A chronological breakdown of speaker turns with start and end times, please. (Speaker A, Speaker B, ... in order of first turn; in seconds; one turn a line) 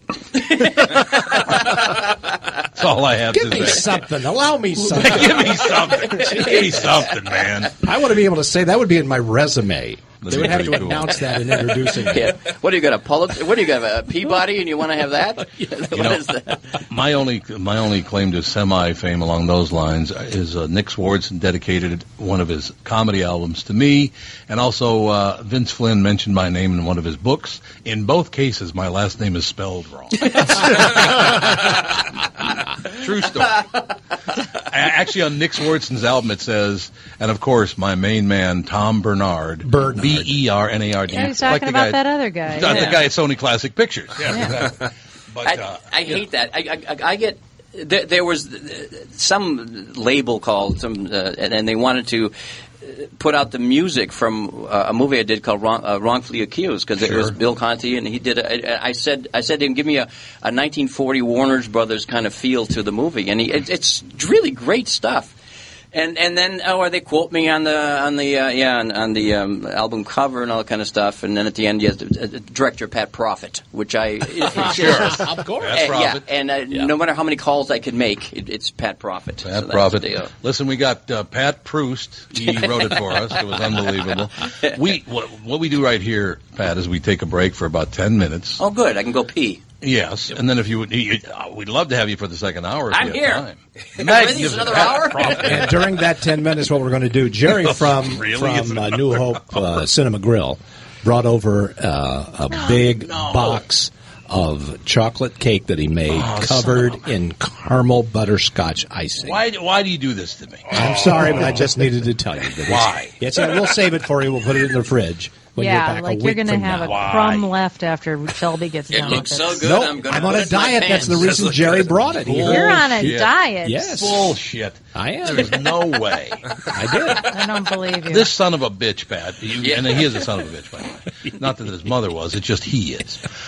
Speaker A: 0.4-1.4
Speaker B: 2.7-4.1
Speaker C: 3.3-5.7
Speaker B: 4.8-7.7
Speaker A: 5.9-7.4
Speaker C: 7.8-12.3
Speaker B: 10.2-11.3
Speaker A: 12.0-16.6
Speaker B: 15.9-16.3
Speaker B: 16.9-31.6
Speaker B: 33.0-33.6
Speaker B: 34.7-44.8
Speaker C: 39.6-40.3
Speaker D: 41.1-43.0
Speaker A: 42.7-43.0
Speaker D: 44.3-44.5
Speaker B: 45.3-46.2
Speaker A: 45.4-65.3
Speaker B: 57.0-57.4
Speaker A: 65.9-75.2
Speaker B: 74.5-76.9
Speaker A: 75.7-80.3
Speaker B: 79.4-88.6
Speaker A: 82.4-83.0
Speaker A: 88.6-89.6
Speaker B: 89.8-96.0
Speaker A: 92.9-93.4
Speaker A: 94.0-95.6
Speaker C: 95.4-109.4
Speaker B: 97.5-99.8
Speaker B: 102.5-103.6
Speaker B: 106.1-107.1
Speaker B: 109.2-111.8
Speaker C: 110.7-116.9
Speaker B: 112.5-113.4
Speaker D: 115.5-119.7
Speaker B: 116.7-117.6
Speaker A: 118.9-121.3
Speaker C: 119.6-123.1
Speaker B: 121.1-126.5
Speaker D: 122.4-123.9
Speaker C: 123.6-124.3
Speaker C: 124.9-125.6
Speaker C: 126.7-127.3
Speaker D: 127.3-128.3
Speaker B: 128.1-133.2
Speaker A: 129.6-130.3